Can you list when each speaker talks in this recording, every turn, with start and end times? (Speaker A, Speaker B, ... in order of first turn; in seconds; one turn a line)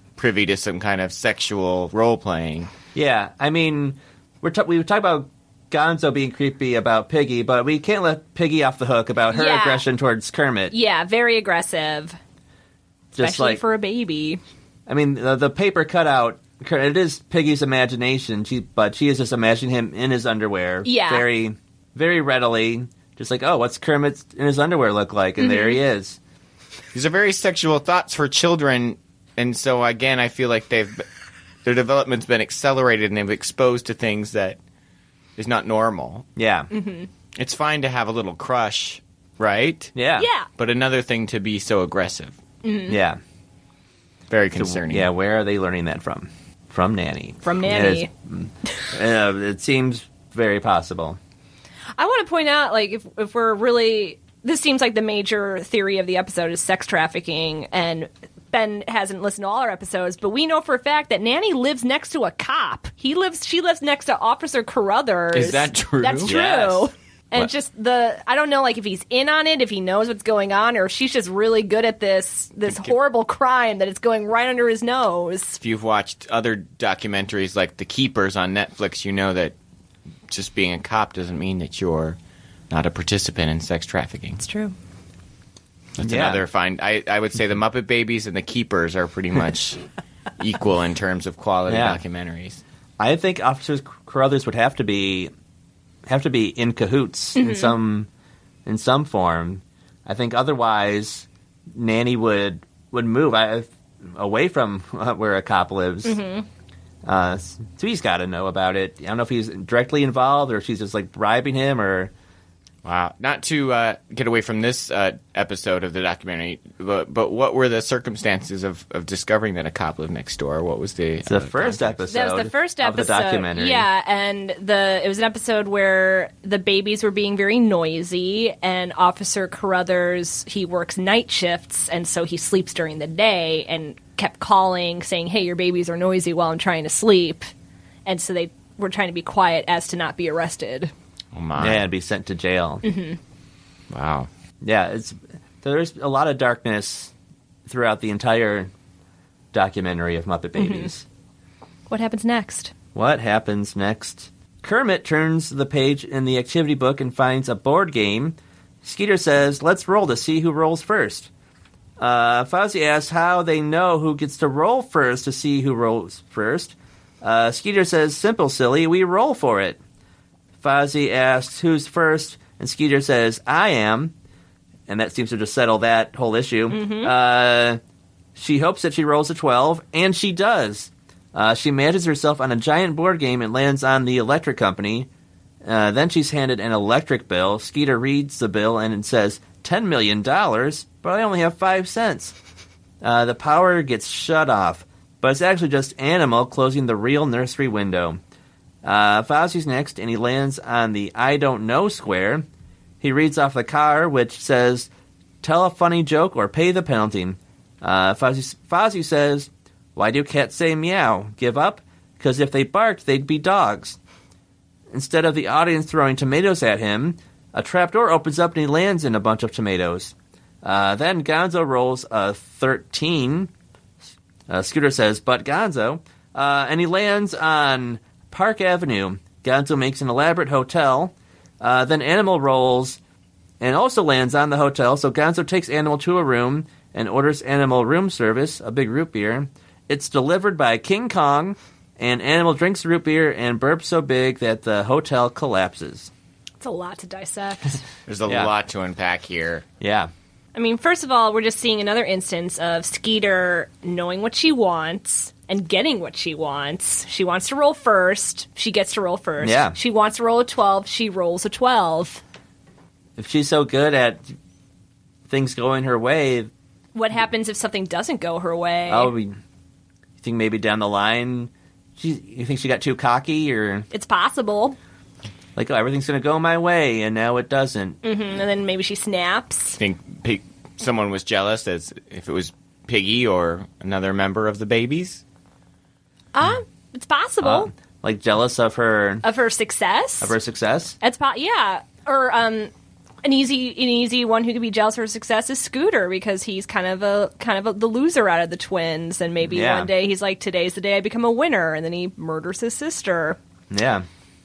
Speaker A: 0.2-2.7
Speaker B: 3.0-10.7
Speaker C: 9.3-9.8
Speaker C: 10.7-12.2
Speaker B: 13.2-13.6
Speaker C: 13.2-14.4
Speaker B: 14.9-26.2
Speaker C: 20.8-21.3
Speaker C: 25.4-25.8
Speaker A: 26.9-31.1
Speaker A: 31.6-34.6
Speaker A: 35.4-36.3
Speaker B: 36.4-36.7
Speaker C: 36.7-37.1
Speaker A: 37.4-39.9
Speaker B: 40.0-40.3
Speaker C: 40.2-40.5
Speaker A: 40.6-42.4
Speaker C: 42.6-43.0
Speaker B: 42.9-43.2
Speaker A: 44.3-45.1
Speaker B: 44.6-51.2
Speaker C: 47.4-48.1
Speaker C: 52.0-75.6
Speaker A: 65.3-66.4
Speaker B: 66.2-66.9
Speaker A: 72.7-72.9
Speaker A: 75.6-79.5
Speaker A: 80.3-82.2
Speaker A: 82.7-84.4
Speaker C: 84.4-84.8
Speaker A: 86.0-89.8
Speaker B: 86.0-86.4
Speaker A: 90.4-92.6
Speaker B: 91.7-92.0
Speaker B: 93.0-95.3
Speaker B: 96.1-98.1
Speaker C: 97.4-97.8
Speaker B: 98.7-106.2
Speaker C: 106.0-106.5
Speaker B: 107.0-112.1
Speaker A: 112.8-122.0
Speaker B: 121.3-123.9
Speaker C: 122.1-137.5
Speaker C: 138.1-140.9
Speaker A: 141.3-141.8
Speaker B: 141.6-142.8
Speaker C: 142.8-143.2
Speaker A: 143.9-144.3
Speaker B: 144.6-147.1
Speaker B: 147.7-148.7
Speaker B: 149.5-151.1
Speaker C: 150.6-150.9
Speaker C: 151.9-152.7
Speaker B: 152.9-161.3
Speaker B: 162.0-169.8
Speaker B: 170.6-174.1
Speaker B: 174.9-177.8
Speaker C: 176.7-177.1
Speaker B: 178.4-185.1
Speaker B: 185.6-192.3
Speaker B: 193.0-198.2
Speaker B: 198.8-202.5
Speaker B: 203.0-204.9
Speaker B: 205.4-214.0
Speaker B: 214.9-223.5
Speaker B: 224.5-233.0
Speaker B: 233.6-246.1
Speaker C: 246.6-247.8
Speaker A: 248.1-249.7
Speaker B: 248.3-248.5
Speaker B: 249.8-250.1
Speaker C: 250.5-262.2
Speaker B: 259.4-259.8
Speaker B: 263.2-264.3
Speaker B: 265.3-266.5
Speaker C: 266.9-269.1
Speaker B: 268.9-269.4
Speaker B: 270.2-273.9
Speaker C: 273.9-274.8
Speaker B: 275.6-278.0
Speaker C: 278.0-279.8
Speaker A: 279.8-285.2
Speaker C: 286.3-287.7
Speaker B: 287.4-289.2
Speaker C: 289.2-290.3
Speaker B: 290.2-291.0
Speaker C: 291.0-292.7
Speaker C: 293.2-303.4
Speaker B: 299.4-299.9
Speaker B: 303.7-304.1